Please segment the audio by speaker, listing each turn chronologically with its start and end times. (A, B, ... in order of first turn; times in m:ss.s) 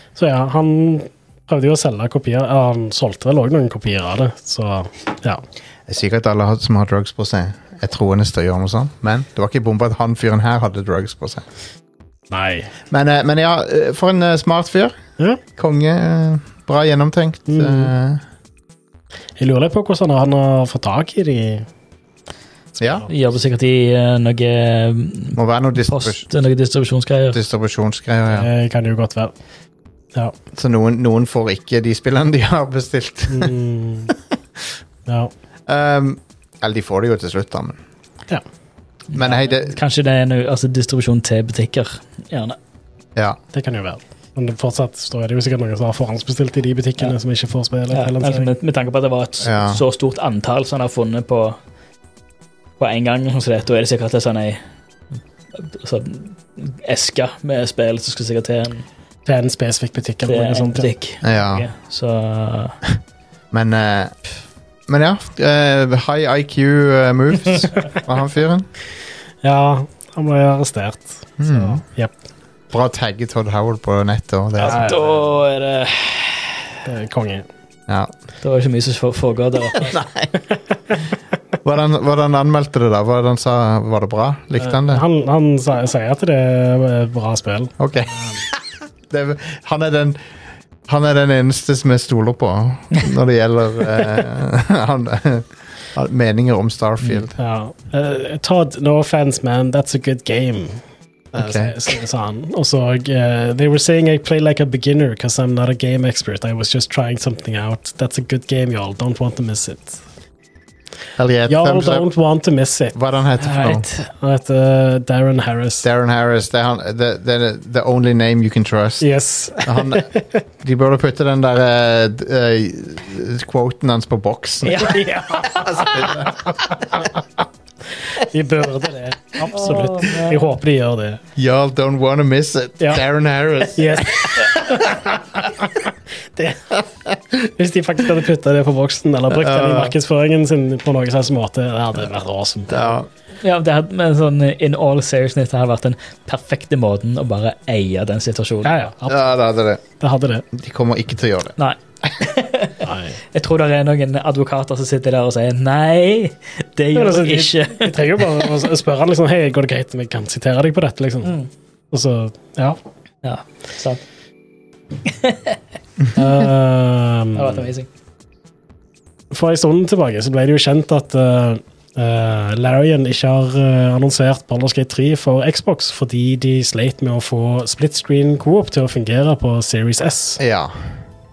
0:00.2-0:05.4 A
0:05.9-0:11.4 B
0:12.3-0:12.7 A
0:12.9-0:14.9 B
0:15.6-0:18.2 B
0:17.5-0:17.9 A
0:19.4-0:21.7 A
0:22.8-0:23.1 A
0:22.8-0:23.1 B
0:23.1-0:27.4 C
0:25.4-0:26.2 B
0:27.3-0:28.5 B
0:28.3-0:29.3 A
0:30.5-0:33.5 B
0:33.3-0:34.1 A
0:35.7-0:37.8 B
0:39.1-0:42.6 C
0:39.1-0:39.7 B
0:43.5-0:48.5 A
0:47.9-0:51.6 C
0:49.4-0:49.8 B
0:52.8-0:54.6 C
0:55.5-0:58.8 C
0:59.2-1:00.9 A
1:00.2-1:02.8 C
1:01.2-1:01.6 B
1:03.5-1:04.1 B
1:04.9-1:08.7 B
1:09.4-1:12.1 A
1:11.4-1:11.8 B
1:12.7-1:14.8 B
1:14.6-1:16.7 C
1:14.6-1:15.0 A
1:16.8-1:17.5 A
1:18.4-1:20.0 C
1:19.8-1:20.3 B
1:21.6-1:25.0 B
1:24.6-1:28.4 A
1:27.8-1:30.2 B
1:30.9-1:37.3 B
1:37.4-1:40.8 A
1:41.3-1:50.0 A
1:41.3-1:41.7 B
1:51.2-1:52.0 B
1:51.5-1:53.0 A
1:52.9-1:53.8 B
1:53.4-1:54.1 C
1:54.2-1:55.8 A
1:55.8-1:59.1 B
1:59.0-2:00.4 A
1:59.6-2:00.1 B
2:00.6-2:06.7 B
2:04.7-2:07.1 A
2:04.7-2:05.5 C
2:08.0-2:11.2 A
2:09.5-2:10.4 C
2:11.4-2:14.8 B
2:13.7-2:23.0 A
2:19.3-2:19.9 B
2:22.7-2:23.1 B
2:23.4-2:28.9 C
2:28.6-2:29.3 A
2:29.1-2:29.8 B
2:30.0-2:30.4 A
2:30.5-2:31.5 B
2:31.6-2:38.5 C
2:32.8-2:33.2 A
2:36.9-2:41.3 A
2:41.2-2:41.5 C
2:41.9-2:42.8 A
2:43.2-2:44.0 C
2:45.0-2:45.6 C
2:46.1-2:47.7 A
2:47.3-2:47.9 C
2:49.3-3:00.4 A
3:00.4-3:00.8 B